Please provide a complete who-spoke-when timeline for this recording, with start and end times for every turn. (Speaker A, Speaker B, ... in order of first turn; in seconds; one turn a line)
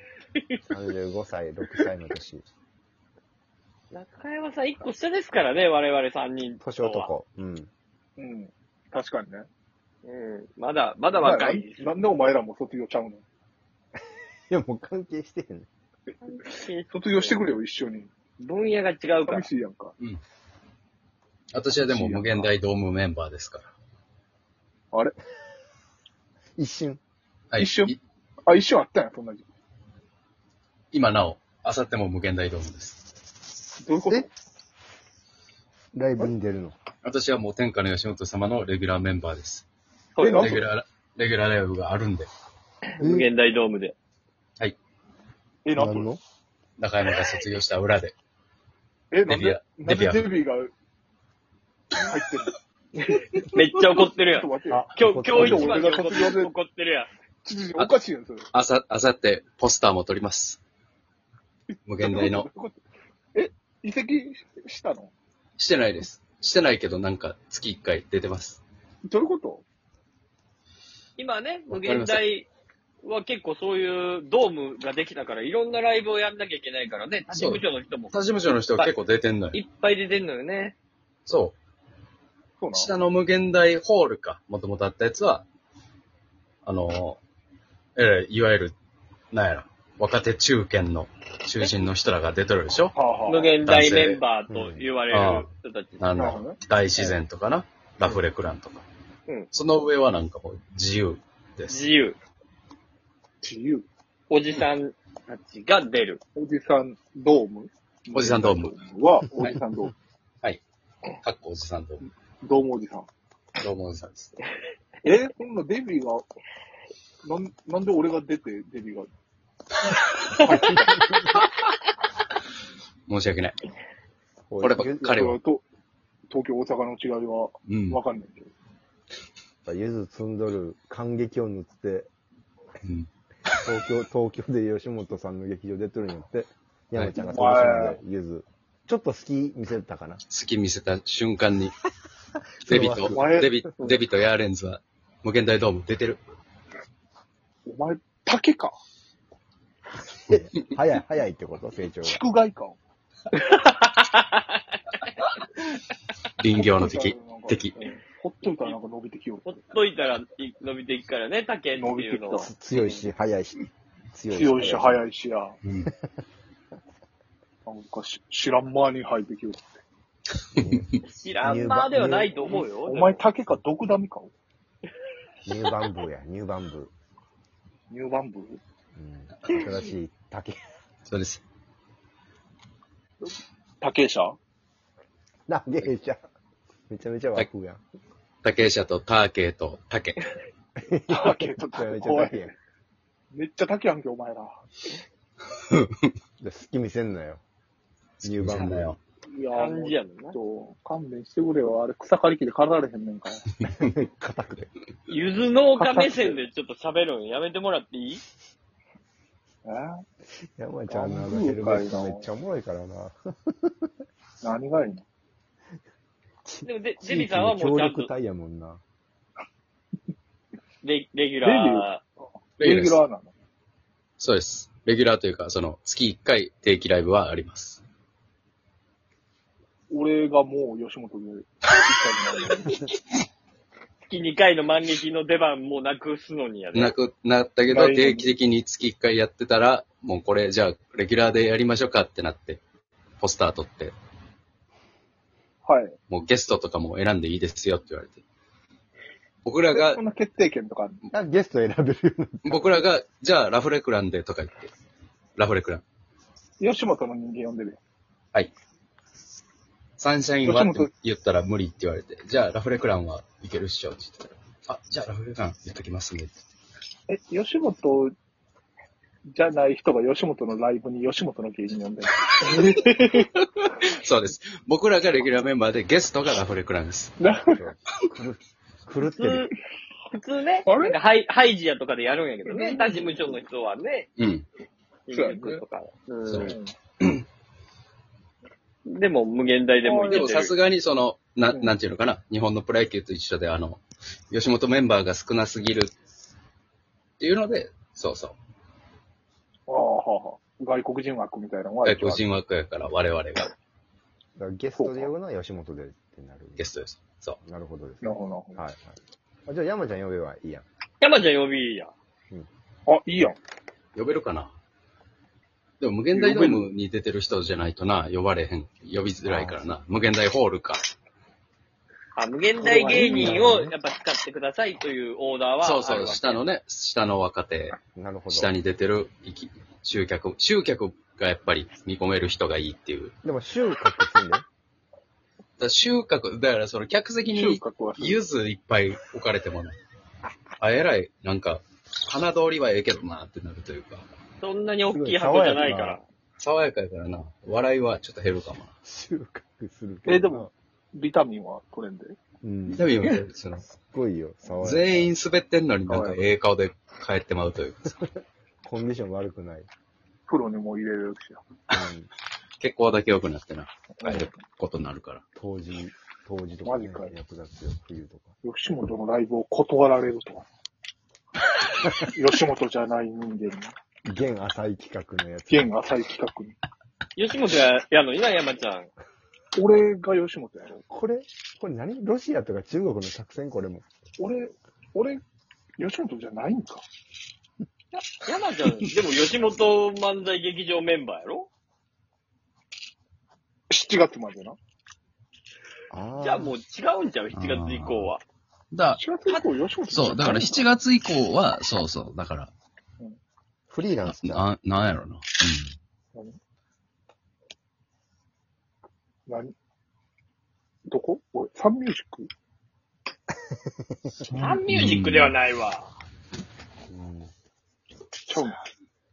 Speaker A: 0.7-2.5
Speaker B: 3.9-7.1
Speaker A: 6.6-7.7
Speaker C: 8.2-9.5
Speaker B: 10.1-11.9
Speaker C: 11.1-13.2
Speaker A: 14.5-15.7
Speaker B: 16.2-17.4
Speaker C: 16.9-18.1
Speaker B: 18.4-19.5
Speaker C: 19.2-19.9
Speaker D: 21.5-23.7
Speaker C: 21.8-22.5
Speaker A: 26.6-27.0
Speaker D: 27.5-28.0
Speaker C: 27.6-27.9
Speaker C: 28.5-29.5
Speaker D: 30.9-33.0
Speaker C: 33.8-34.3
Speaker A: 35.9-36.8
Speaker D: 37.0-39.7
Speaker B: 40.2-40.6
Speaker C: 40.2-40.7
Speaker D: 40.2-42.3
Speaker B: 42.9-44.0
Speaker A: 43.0-43.3
Speaker C: 45.6-46.1
Speaker A: 45.8-46.2
Speaker D: 46.8-48.1
Speaker C: 49.1-50.7
Speaker D: 49.3-50.3
Speaker C: 52.0-52.6
Speaker B: 53.0-57.1
Speaker C: 53.3-56.5
Speaker A: 54.7-55.9
Speaker C: 57.5-58.5
Speaker D: 58.5-60.6
Speaker D: 61.9-62.5
Speaker C: 62.0-62.8
Speaker C: 63.4-65.1
Speaker D: 65.6-68.6
Speaker C: 69.1-69.7
Speaker B: 71.2-72.5
Speaker D: 71.7-72.2
Speaker B: 73.0-78.2
Speaker D: 77.3-79.6
Speaker B: 79.5-80.8
Speaker D: 81.3-81.6
Speaker C: 82.6-82.9
Speaker D: 82.7-85.5
Speaker D: 86.7-87.2
Speaker D: 88.0-88.8
Speaker D: 89.3-93.0
Speaker C: 93.0-93.5
Speaker B: 93.3-96.0
Speaker D: 93.6-94.2
Speaker A: 94.5-94.9
Speaker D: 95.1-98.8
Speaker C: 96.2-97.1
Speaker D: 99.5-101.8
Speaker B: 101.7-102.2
Speaker C: 103.4-103.8
Speaker B: 104.3-106.2
Speaker C: 106.4-109.9
Speaker D: 108.1-108.8
Speaker D: 111.2-112.1
Speaker C: 112.4-113.1
Speaker D: 113.6-114.3
Speaker C: 115.0-116.2
Speaker C: 117.2-119.1
Speaker A: 120.4-121.4
Speaker D: 123.1-123.6
Speaker A: 124.5-125.2
Speaker D: 124.6-125.4
Speaker C: 125.0-125.7
Speaker C: 126.3-128.5
Speaker D: 127.7-128.0
Speaker A: 129.7-132.1
Speaker D: 132.8-133.6
Speaker A: 133.6-140.2
Speaker C: 137.2-138.0
Speaker D: 140.3-141.8
Speaker A: 142.6-143.6
Speaker D: 142.7-146.2
Speaker C: 143.1-144.0
Speaker C: 147.7-148.8
Speaker A: 150.3-152.2
Speaker C: 152.1-152.8
Speaker B: 153.3-154.4
Speaker D: 156.4-157.8
Speaker C: 156.6-159.5
Speaker B: 159.4-162.5
Speaker C: 161.8-162.5
Speaker A: 162.4-163.6
Speaker A: 164.1-165.0
Speaker C: 164.3-165.6
Speaker C: 167.7-169.7
Speaker D: 170.6-170.8
Speaker A: 170.6-172.4
Speaker B: 171.1-173.2
Speaker C: 172.4-174.3
Speaker A: 175.5-176.9
Speaker C: 177.9-178.6
Speaker A: 178.9-180.6
Speaker D: 181.1-181.4
Speaker C: 183.2-184.4
Speaker A: 185.5-186.2
Speaker A: 186.9-187.8
Speaker D: 188.4-190.2
Speaker A: 190.8-192.5
Speaker C: 191.1-192.5
Speaker C: 193.3-194.6
Speaker A: 196.4-197.4
Speaker D: 198.2-199.0
Speaker A: 198.2-198.9
Speaker C: 199.3-203.5
Speaker B: 199.5-200.4
Speaker A: 203.8-204.7
Speaker B: 205.1-208.2
Speaker C: 205.8-206.4
Speaker C: 209.7-210.0
Speaker A: 210.6-213.9
Speaker C: 210.9-212.3
Speaker C: 214.4-215.0
Speaker A: 216.5-218.8
Speaker B: 216.6-218.1
Speaker B: 220.8-222.0
Speaker C: 221.4-221.9
Speaker C: 222.6-223.3
Speaker D: 222.6-223.0
Speaker D: 224.2-227.8
Speaker C: 229.9-232.8
Speaker B: 234.1-237.0
Speaker D: 236.7-242.6
Speaker C: 237.7-238.3
Speaker D: 243.2-243.9
Speaker C: 245.7-245.9
Speaker D: 246.1-248.2
Speaker D: 249.4-250.0
Speaker C: 249.7-251.0
Speaker A: 251.1-252.8
Speaker D: 252.5-254.7
Speaker D: 255.4-255.8
Speaker C: 256.6-257.8
Speaker D: 260.0-266.3
Speaker C: 260.4-260.9
Speaker C: 267.1-268.1
Speaker C: 269.3-273.3
Speaker D: 273.8-277.1
Speaker C: 277.2-277.6
Speaker A: 277.5-279.5
Speaker B: 279.0-279.5
Speaker B: 280.1-284.1
Speaker C: 280.7-281.0
Speaker C: 282.5-283.4
Speaker D: 284.2-284.5
Speaker B: 285.1-286.6
Speaker C: 285.1-285.6
Speaker D: 286.3-287.2
Speaker C: 286.4-286.7
Speaker B: 288.9-290.6
Speaker C: 289.8-290.3
Speaker D: 290.1-295.9
Speaker D: 297.2-298.4
Speaker C: 299.7-302.2
Speaker D: 301.8-303.5
Speaker A: 304.4-306.6
Speaker C: 304.8-305.1
Speaker D: 306.6-307.4
Speaker A: 307.4-310.6
Speaker C: 308.0-308.6
Speaker B: 311.0-311.9
Speaker C: 312.9-313.4
Speaker D: 313.9-314.5
Speaker D: 315.8-320.9
Speaker C: 316.1-316.7
Speaker A: 319.2-319.7
Speaker B: 322.1-326.4
Speaker C: 322.6-323.5
Speaker A: 322.8-323.8
Speaker D: 325.6-327.8
Speaker A: 328.0-328.5
Speaker D: 328.3-333.1
Speaker A: 333.2-334.4
Speaker D: 335.6-339.8
Speaker C: 337.3-338.2
Speaker D: 340.6-344.1
Speaker B: 344.4-346.0
Speaker A: 344.9-346.0
Speaker D: 346.4-348.7
Speaker A: 348.8-350.5
Speaker C: 350.1-352.2
Speaker A: 352.4-353.1
Speaker D: 352.7-353.7
Speaker A: 353.7-355.1
Speaker D: 354.6-358.1
Speaker C: 355.9-356.2
Speaker A: 358.6-359.7
Speaker C: 360.3-361.4
Speaker A: 361.7-362.1
Speaker D: 362.6-365.2
Speaker C: 364.0-364.3
Speaker A: 365.4-368.4
Speaker C: 366.6-367.2
Speaker C: 368.4-370.5
Speaker C: 372.0-373.8
Speaker A: 374.1-375.7
Speaker C: 375.5-376.6
Speaker B: 377.2-378.9
Speaker C: 379.6-380.8
Speaker A: 380.9-383.9
Speaker C: 384.2-385.2
Speaker C: 385.8-386.9
Speaker B: 387.9-391.5
Speaker C: 393.7-394.6
Speaker A: 395.9-396.6
Speaker B: 396.2-398.2
Speaker D: 397.3-398.1
Speaker D: 398.7-399.1
Speaker C: 398.9-400.7
Speaker D: 399.9-402.5
Speaker A: 403.7-404.4
Speaker D: 404.1-405.7
Speaker C: 409.3-409.5
Speaker C: 410.9-412.3
Speaker A: 414.1-414.4
Speaker D: 414.3-415.4
Speaker B: 414.4-415.9
Speaker A: 416.9-417.3
Speaker C: 418.3-418.6